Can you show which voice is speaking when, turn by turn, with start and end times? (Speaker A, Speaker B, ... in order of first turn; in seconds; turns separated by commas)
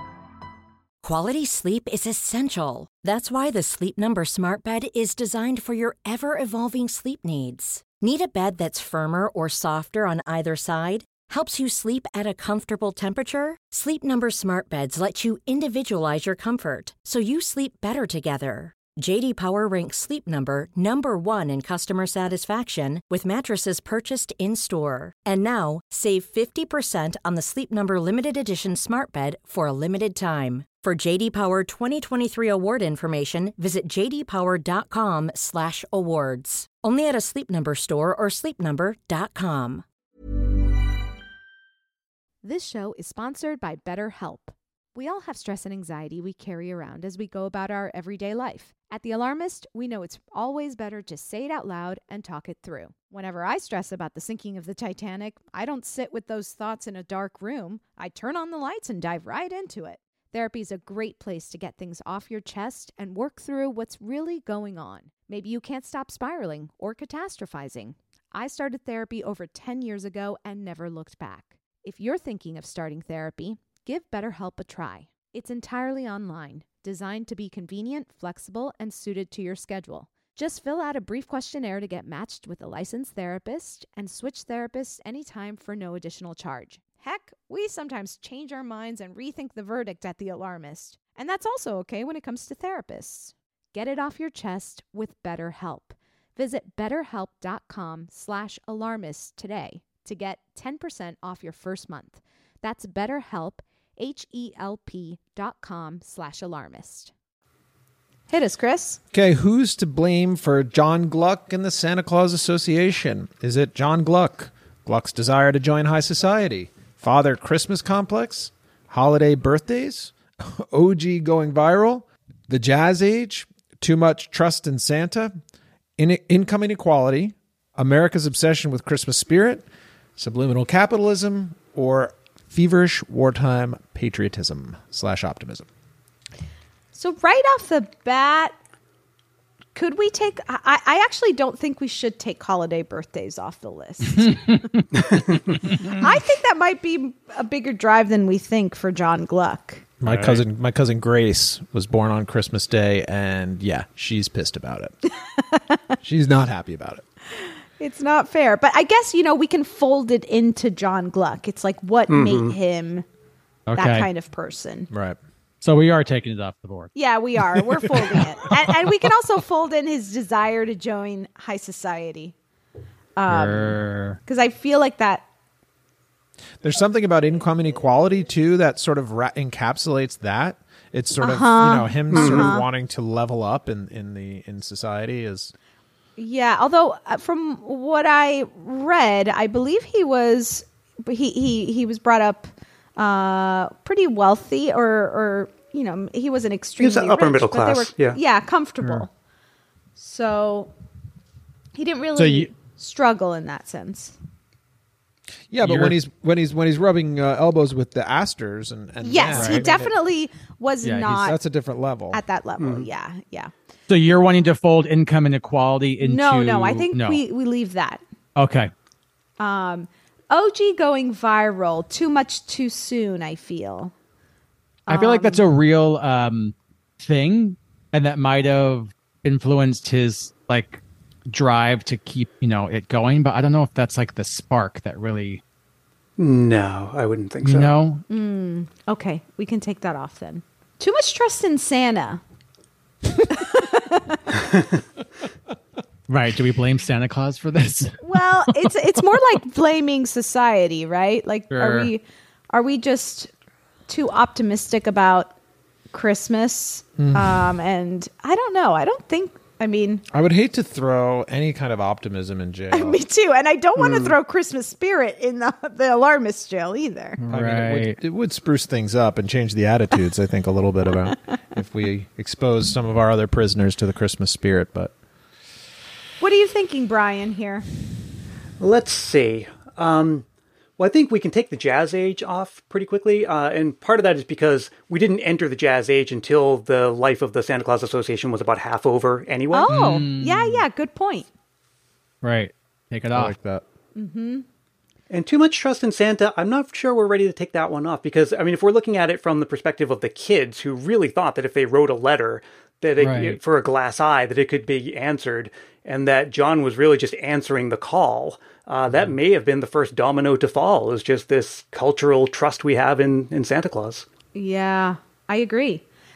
Speaker A: 1.0-39.8, Speaker B: 42.4-107.1, Speaker B: 108.3-109.0, Speaker C: 109.1-125.4, Speaker C: 126.0-129.7, Speaker C: 130.2-135.7, Speaker B: 136.9-138.5, Speaker B: 139.7-144.4, Speaker D: 144.1-144.9, Speaker E: 145.1-145.6, Speaker D: 145.5-146.0, Speaker B: 145.9-149.9, Speaker C: 150.0-154.9, Speaker D: 150.0-150.4, Speaker B: 155.4-155.8, Speaker C: 156.0-157.0, Speaker B: 157.4-163.0, Speaker E: 162.1-162.5, Speaker D: 163.7-164.1, Speaker B: 163.8-164.9, Speaker C: 164.9-165.2, Speaker D: 165.6-166.9, Speaker B: 166.9-172.3, Speaker B: 173.2-175.2, Speaker D: 173.3-174.2, Speaker C: 176.6-185.5, Speaker B: 181.2-182.7, Speaker E: 182.1-182.5, Speaker B: 186.2-199.1, Speaker E: 196.8-198.2, Speaker B: 200.0-200.7, Speaker B: 201.7-204.2, Speaker C: 202.2-202.4, Speaker C: 205.5-209.9, Speaker D: 205.6-205.9, Speaker B: 209.0-211.4, Speaker D: 209.3-209.7, Speaker D: 210.8-211.1, Speaker C: 211.1-212.2, Speaker B: 212.1-213.5, Speaker E: 212.6-212.9, Speaker D: 213.9-217.2, Speaker B: 216.0-218.0, Speaker D: 218.3-218.7, Speaker B: 219.4-223.9, Speaker D: 224.9-235.4, Speaker B: 224.9-225.4, Speaker E: 236.2-237.8, Speaker D: 237.4-238.0, Speaker B: 238.1-242.2, Speaker B: 243.3-244.2, Speaker D: 246.1-248.5, Speaker B: 248.0-253.3, Speaker D: 251.5-251.9, Speaker B: 253.9-255.3, Speaker B: 255.9-260.0, Speaker C: 257.0-257.5, Speaker C: 260.1-263.0, Speaker B: 262.7-267.2, Speaker E: 263.8-264.1, Speaker D: 267.2-268.0, Speaker C: 267.3-274.9, Speaker B: 276.2-277.6, Speaker E: 278.6-280.2, Speaker E: 280.8-289.9, Speaker B: 289.5-291.3, Speaker D: 289.7-290.6, Speaker D: 292.2-293.3, Speaker C: 293.1-293.6, Speaker B: 293.9-294.4, Speaker E: 295.1-314.1, Speaker D: 303.0-303.4, Speaker B: 314.3-315.8